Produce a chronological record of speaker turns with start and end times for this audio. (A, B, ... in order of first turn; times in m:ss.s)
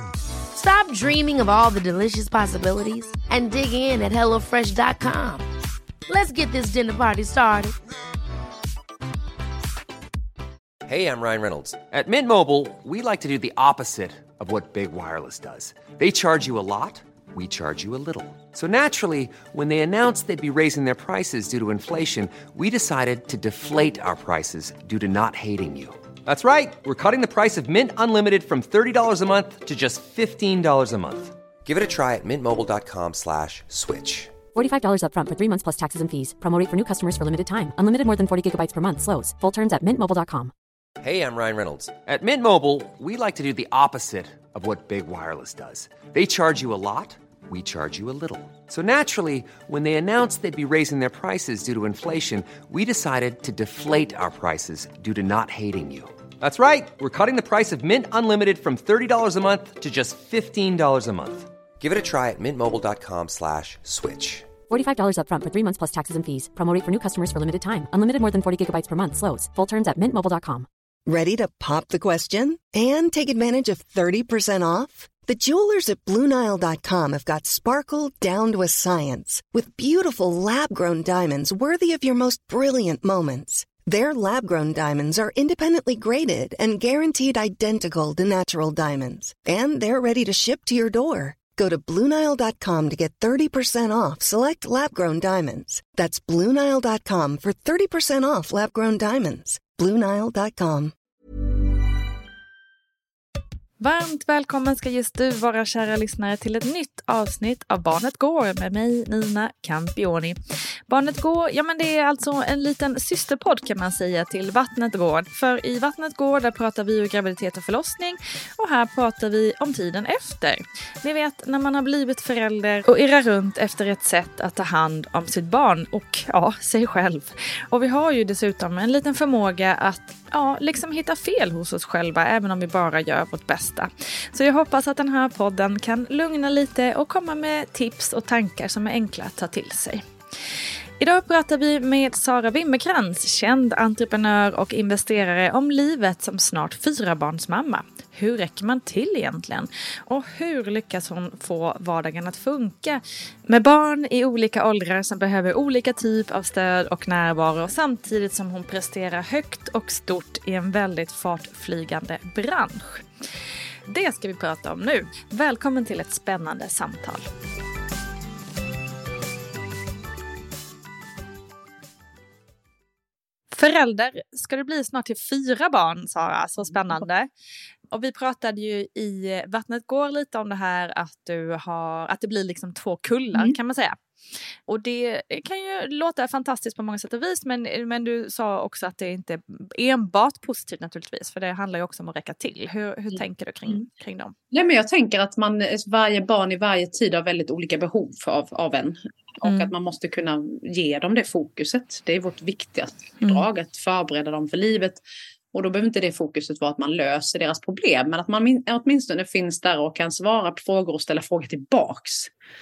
0:00.5-0:05.5 A
0:06.1-0:07.7 A
0:10.9-0:34.3 B
0:34.6-0:40.5 C
0:41.0-1:04.5 B
1:04.7-1:10.7 C
1:11.1-1:40.9 D
1:43.8-1:50.4 E
1:50.9-2:20.0 E
2:21.0-2:43.0 E
2:43.9-2:47.3 E
2:53.5-2:57.3 E
2:57.9-3:04.0 E
3:04.7-3:14.4 E
3:13.1-3:13.8 F
3:14.5-3:25.0 F
3:19.4-3:19.7 E
3:25.5-3:32.3 F